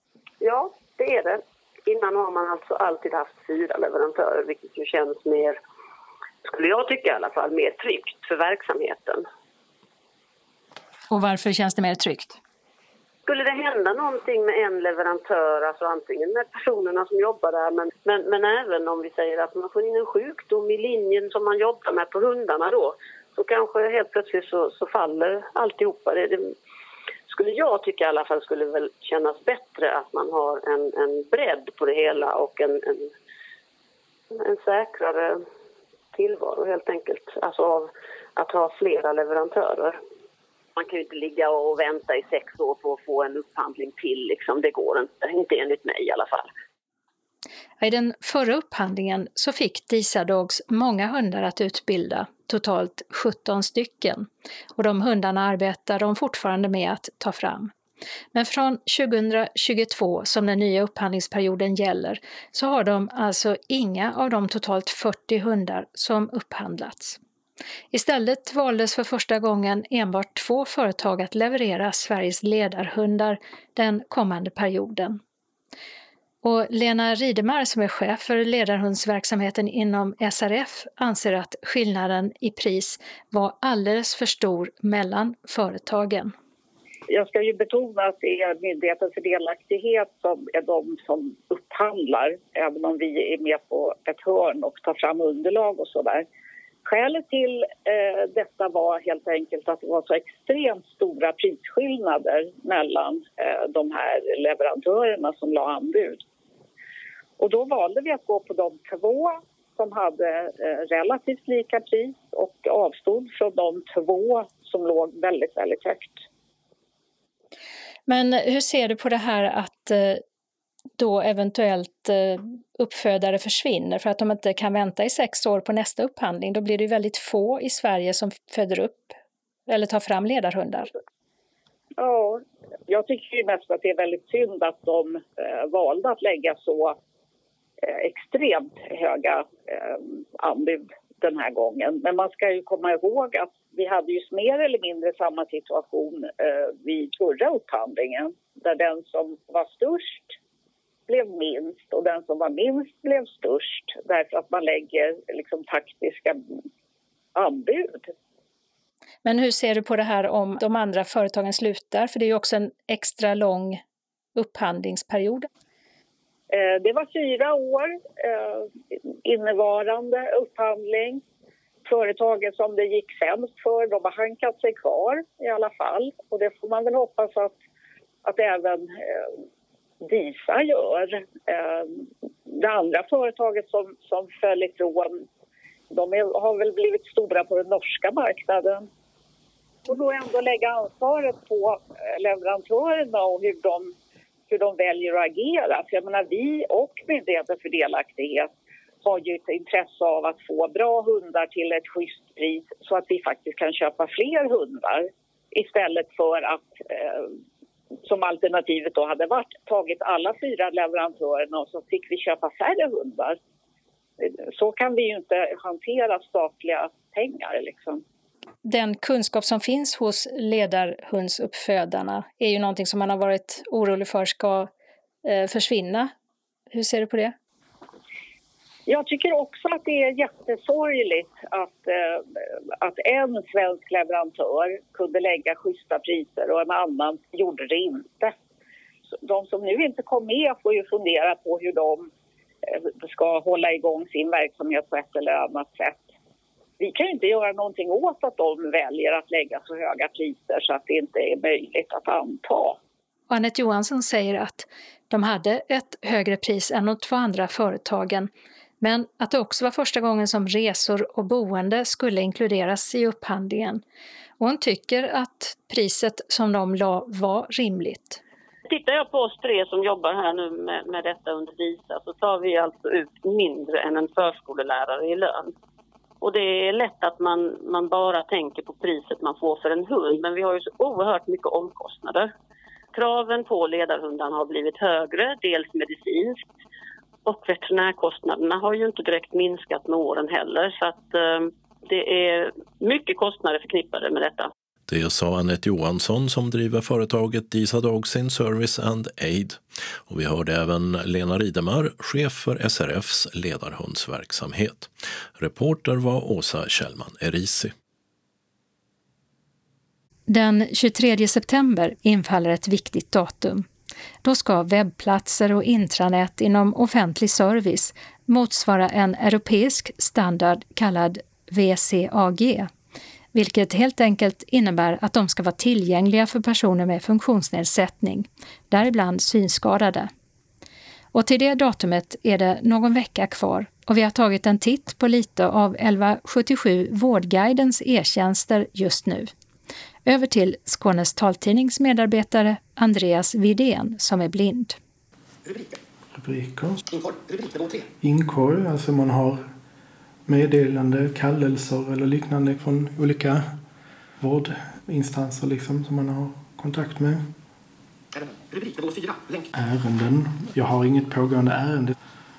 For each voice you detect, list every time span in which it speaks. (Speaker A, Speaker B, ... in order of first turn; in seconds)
Speaker A: 0.4-5.6, 6.5-9.2, 13.3-26.5, 27.3-33.1, 34.4-35.4, 36.1-40.0, 40.8-46.5, 268.7-275.5, 276.2-282.3, 282.9-286.5, 287.3-294.5
Speaker B: 11.1-12.4, 47.8-57.7, 58.3-67.2, 67.9-75.2, 76.4-86.3, 118.1-120.2, 121.0-129.2, 129.7-130.9, 159.2-163.8, 164.4-165.5, 218.7-224.7, 225.2-226.1, 226.7-227.3, 253.3-258.3, 258.8-263.8, 264.4-268.2, 310.3-313.7, 314.2-322.7, 323.3-330.1, 331.1-339.3, 340.1-344.8
Speaker C: 87.1-96.3, 96.8-106.2, 107.4-116.2, 132.0-137.0, 137.9-150.3, 151.1-156.4, 157.3-158.2, 166.5-168.7, 169.2-171.2, 171.9-177.6, 178.2-179.3, 180.0-185.2, 185.9-188.9, 189.9-193.9, 194.5-198.5, 199.0-207.3, 208.1-213.4, 214.2-218.0, 228.9-232.2, 232.8-238.4, 239.2-242.1, 243.0-246.1, 246.8-252.8
Speaker D: 294.9-307.7
Speaker E: 346.1-349.4, 350.3-353.6, 354.2-357.3, 359.5-362.0